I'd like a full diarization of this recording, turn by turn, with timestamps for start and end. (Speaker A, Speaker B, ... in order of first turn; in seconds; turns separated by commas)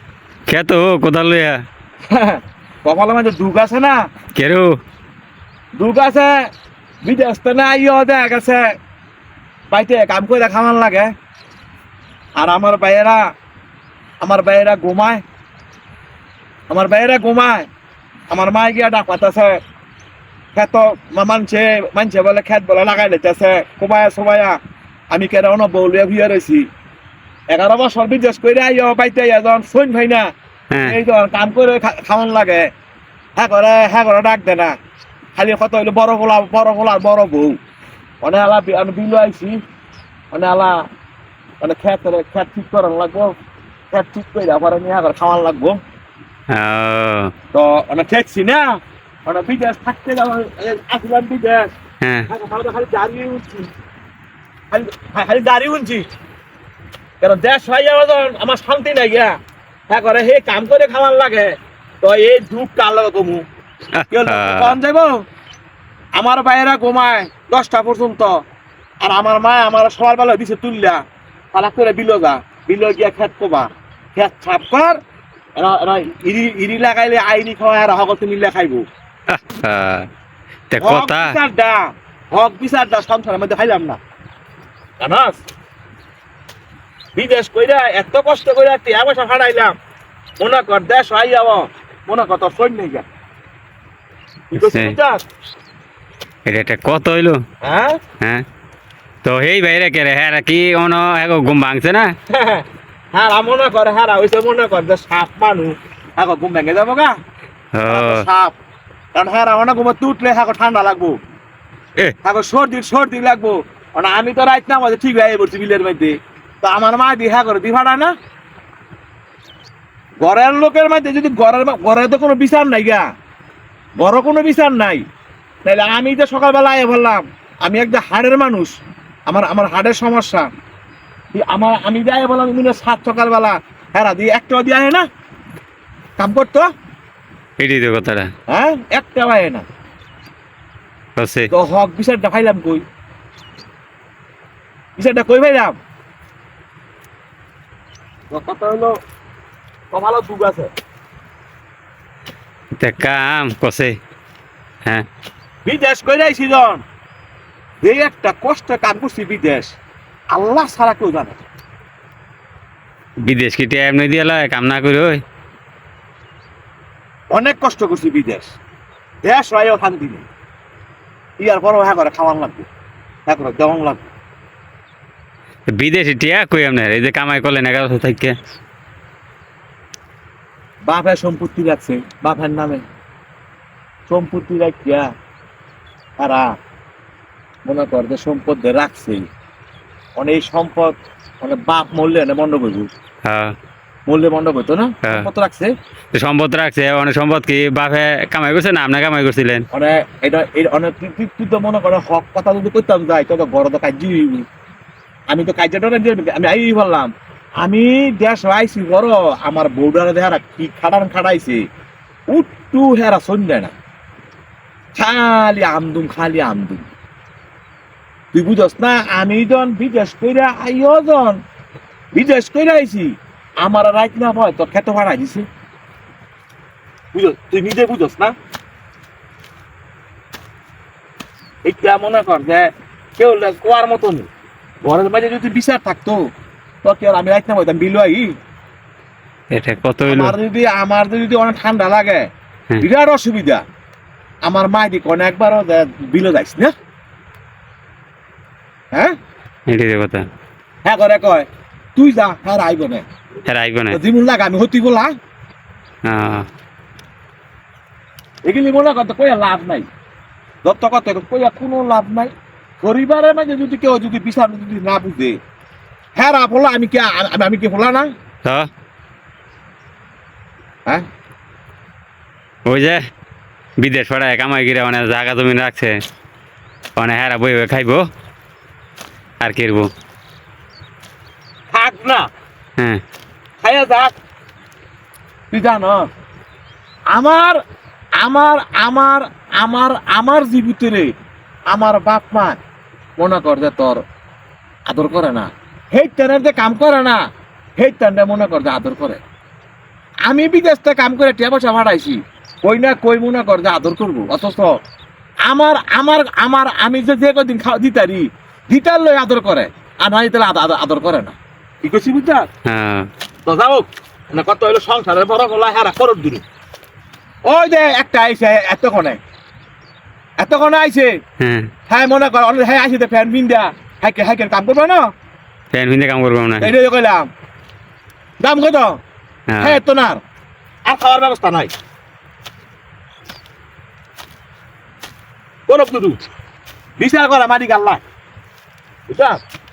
Speaker A: 0.5-1.6, Speaker B: 2.1-4.0, Speaker A: 4.3-4.7, Speaker B: 5.8-6.5, Speaker B: 7.0-8.7, Speaker B: 9.7-11.1, Speaker B: 12.4-13.2, Speaker B: 14.2-15.2, Speaker B: 16.7-17.7, Speaker B: 18.3-19.6, Speaker B: 20.6-24.6, Speaker B: 25.1-26.6, Speaker B: 27.5-30.3, Speaker B: 30.9-32.7, Speaker B: 33.4-34.7, Speaker B: 35.4-37.5, Speaker B: 38.2-39.6, Speaker B: 40.3-40.8, Speaker B: 41.6-43.3, Speaker B: 43.9-45.8, Speaker A: 46.5-47.3, Speaker B: 47.5-51.7, Speaker A: 52.0-52.3, Speaker B: 52.3-53.7, Speaker B: 54.7-56.0, Speaker B: 57.2-59.4, Speaker B: 59.9-63.5, Speaker A: 64.0-64.8, Speaker B: 64.1-65.2, Speaker B: 66.2-68.3, Speaker B: 69.0-71.0, Speaker B: 71.5-75.0, Speaker B: 75.6-78.8, Speaker A: 79.3-80.1, Speaker A: 80.7-81.3, Speaker B: 80.8-84.0, Speaker B: 85.0-85.4, Speaker B: 87.2-89.8, Speaker B: 90.4-93.0, Speaker B: 94.5-95.2, Speaker A: 94.6-95.0, Speaker A: 96.5-97.4, Speaker B: 97.6-98.0, Speaker A: 99.2-102.1, Speaker B: 102.3-107.2, Speaker A: 107.8-108.2, Speaker B: 107.9-108.5, Speaker B: 109.2-111.2, Speaker B: 112.2-118.1, Speaker B: 120.2-123.0, Speaker B: 124.0-125.0, Speaker B: 125.7-128.7, Speaker B: 129.3-130.5, Speaker B: 131.3-135.1, Speaker B: 136.2-136.7, Speaker A: 137.6-138.3, Speaker B: 138.5-139.6, Speaker A: 141.2-141.5, Speaker B: 141.5-142.8, Speaker B: 145.0-145.8, Speaker B: 148.3-148.9, Speaker B: 149.9-150.7, Speaker A: 152.8-153.9, Speaker B: 155.7-156.8, Speaker B: 157.8-159.8, Speaker B: 160.3-161.4, Speaker A: 163.3-165.2, Speaker B: 167.3-168.5, Speaker B: 169.2-170.2, Speaker B: 171.4-172.7, Speaker B: 173.3-174.1, Speaker A: 175.8-178.3, Speaker B: 180.9-182.8, Speaker B: 184.1-185.1, Speaker B: 186.2-186.5, Speaker B: 187.7-189.2, Speaker B: 190.2-192.9, Speaker A: 193.2-193.5, Speaker B: 194.1-195.7, Speaker A: 196.2-199.7, Speaker B: 199.7-204.5, Speaker B: 205.3-211.6, Speaker B: 212.3-213.7, Speaker B: 215.0-216.9, Speaker B: 218.3-221.4, Speaker B: 222.2-225.5, Speaker B: 227.1-228.3, Speaker B: 231.7-234.3, Speaker B: 234.8-236.2, Speaker B: 236.8-238.3, Speaker A: 239.5-240.4, Speaker B: 240.1-242.2, Speaker B: 242.8-243.6, Speaker B: 244.4-246.7, Speaker A: 249.7-250.2, Speaker B: 250.8-253.1, Speaker A: 253.5-254.0, Speaker B: 253.9-255.1, Speaker A: 256.1-256.5, Speaker B: 258.5-259.9, Speaker B: 260.6-265.4, Speaker B: 266.2-268.1, Speaker A: 272.7-273.0, Speaker A: 273.8-275.9, Speaker A: 277.0-278.0, Speaker A: 279.4-279.9, Speaker B: 281.7-282.3, Speaker B: 283.6-284.1, Speaker B: 285.5-286.0, Speaker B: 287.1-287.6, Speaker B: 288.2-291.1, Speaker B: 291.7-292.6, Speaker B: 293.2-294.0, Speaker B: 294.9-297.2, Speaker B: 297.8-299.2, Speaker B: 300.3-304.7, Speaker B: 305.5-312.5, Speaker A: 312.7-313.1, Speaker B: 313.5-316.4, Speaker B: 317.5-319.2, Speaker B: 320.4-321.1, Speaker A: 321.4-321.7, Speaker B: 321.9-325.0, Speaker A: 325.7-326.7, Speaker B: 326.6-327.3, Speaker B: 328.4-329.0, Speaker A: 329.5-329.8, Speaker B: 329.6-330.2, Speaker B: 330.9-331.7, Speaker B: 335.7-336.2, Speaker B: 337.0-338.0, Speaker B: 339.1-339.4